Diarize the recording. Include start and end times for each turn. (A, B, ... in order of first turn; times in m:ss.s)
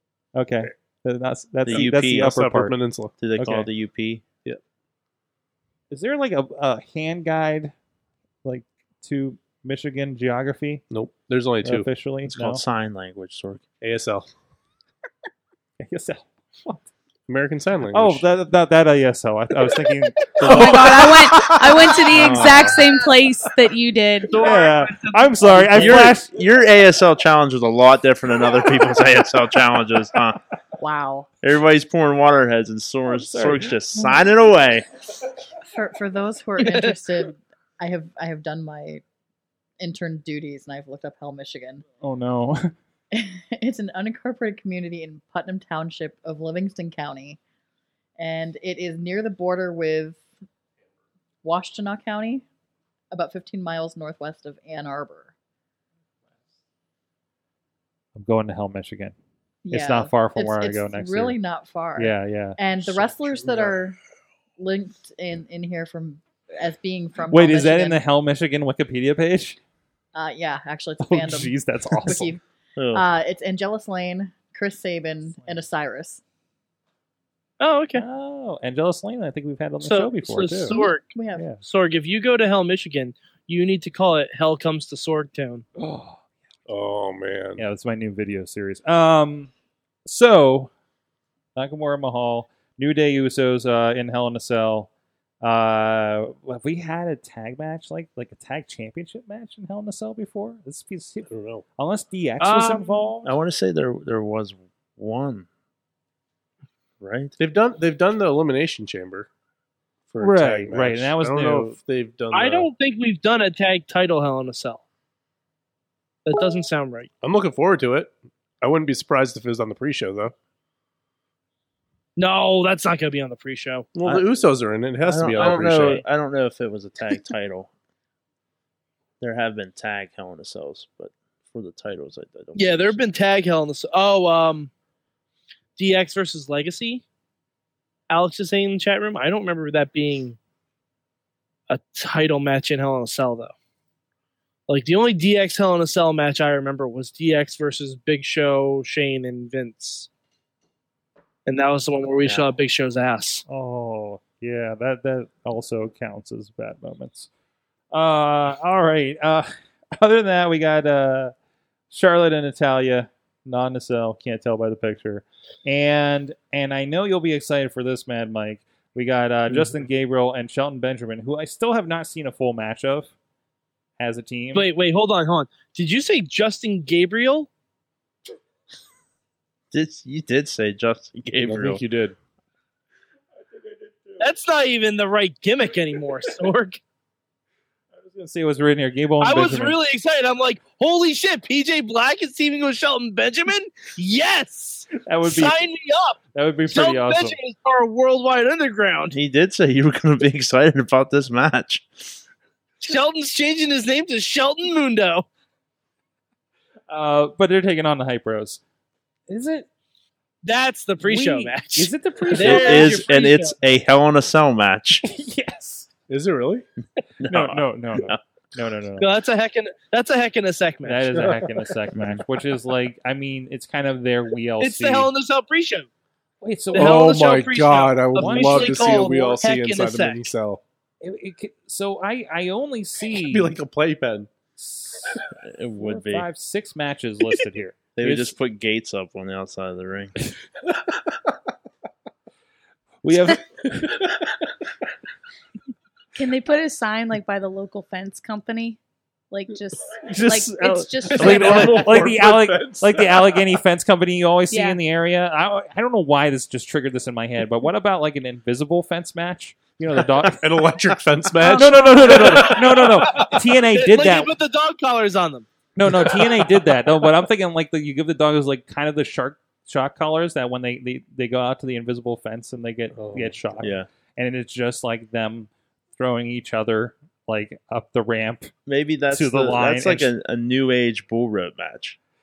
0:00.4-0:02.8 A
0:01.7-0:02.4 B
0:01.7-0:03.1 C
0:03.2-0:04.2 B
0:03.4-0:03.7 A
0:05.9-0:07.7 A
0:08.4-0:10.8 A
0:10.9-0:11.9 C
0:11.6-0:12.6 A
0:12.3-0:13.7 B
0:13.8-0:14.3 C
0:15.8-0:16.9 A
0:17.3-0:18.3 C
0:17.9-0:21.0 A
0:20.4-0:21.1 B
0:20.4-0:24.4 D
0:20.4-0:20.7 C
0:21.3-0:21.6 C
0:22.1-0:22.8 B
0:22.2-0:22.6 C
0:24.3-0:26.0 E
0:24.4-0:26.3 A
0:25.7-0:30.4 B
0:30.8-0:31.3 F
0:31.4-0:34.9 B
0:33.1-0:33.7 A
0:35.7-0:39.0 F
0:36.6-0:37.0 E
0:39.8-0:41.8 F
0:42.0-0:42.7 A
0:43.1-0:47.4 F
0:48.2-0:50.2 F
0:51.4-0:52.4 F
0:53.1-0:55.3 F
0:58.2-0:59.1 A
0:59.6-1:04.0 F
0:59.7-1:01.4 A
1:02.0-1:02.6 A
1:02.9-1:03.7 C
1:04.6-1:08.0 F
1:07.3-1:09.6 A
1:10.1-1:12.4 F
1:11.0-1:12.4 A
1:12.8-1:13.1 B
1:12.9-1:16.2 F
1:17.6-1:18.0 E
1:18.0-1:20.8 A
1:19.8-1:25.6 E
1:20.7-1:21.5 F
1:25.8-1:26.2 A
1:26.7-1:27.6 C
1:27.6-1:29.5 A
1:30.1-1:30.7 A
1:31.6-1:34.9 A
1:35.4-1:43.3 A
1:41.3-1:41.6 C
1:42.4-1:43.0 E
1:43.2-1:45.5 B
1:47.0-1:47.4 B
1:47.4-1:49.3 C
1:50.1-1:52.7 C
1:50.2-1:51.8 A
1:52.3-1:54.8 E
1:56.3-1:57.1 E
1:57.2-2:00.3 C
2:02.2-2:03.9 E
2:03.9-2:06.0 C
2:05.0-2:07.7 B
2:05.4-2:06.0 E
2:09.2-2:13.0 B
2:12.6-2:14.7 E
2:15.8-2:17.0 E
2:18.1-2:20.4 E
2:21.7-2:23.5 E
2:24.7-2:30.1 E
2:31.5-2:33.4 E
2:33.5-2:37.3 A
2:37.9-2:41.3 A
2:41.9-2:53.1 A
2:54.0-2:54.7 A
2:54.5-2:57.5 E
2:59.7-3:01.8 B
3:01.4-3:02.2 C
3:03.6-3:04.3 A
3:04.2-3:06.8 E
3:08.0-3:09.8 A
3:09.2-3:19.2 E
3:15.0-3:15.6 A
3:16.3-3:17.4 A
3:19.1-3:22.2 B
3:22.8-3:25.3 E
3:26.9-3:28.6 A
3:29.3-3:29.7 A
3:30.4-3:33.5 E
3:31.0-3:33.0 A
3:32.4-3:35.1 B
3:35.0-3:35.9 A
3:36.1-3:36.6 C
3:37.2-3:38.2 B
3:37.3-3:39.1 A
3:39.0-3:41.2 E
3:40.8-3:45.1 A
3:41.2-3:41.7 C
3:41.9-3:42.2 B
3:44.6-3:45.9 E
3:46.4-3:47.2 A
3:46.7-3:50.3 E
3:46.7-3:50.6 C
3:48.2-3:49.1 A
3:51.0-3:53.6 A
3:53.1-3:54.3 C
3:54.6-3:55.2 A
3:55.4-3:56.3 B
3:55.8-3:58.3 A
3:58.0-4:00.1 B
4:03.0-4:04.0 A
4:04.0-4:04.3 C
4:06.1-4:08.8 D
4:09.3-4:12.0 D
4:10.0-4:20.6 A
4:11.1-4:13.5 C
4:14.5-4:14.8 D
4:20.3-4:23.4 C
4:21.4-4:22.2 D
4:21.4-4:24.3 A
4:22.3-4:25.5 E
4:25.8-4:38.5 A
4:25.9-4:26.4 C
4:33.0-4:33.4 C
4:33.6-4:33.9 B
4:38.7-4:42.0 B
4:39.1-4:40.1 A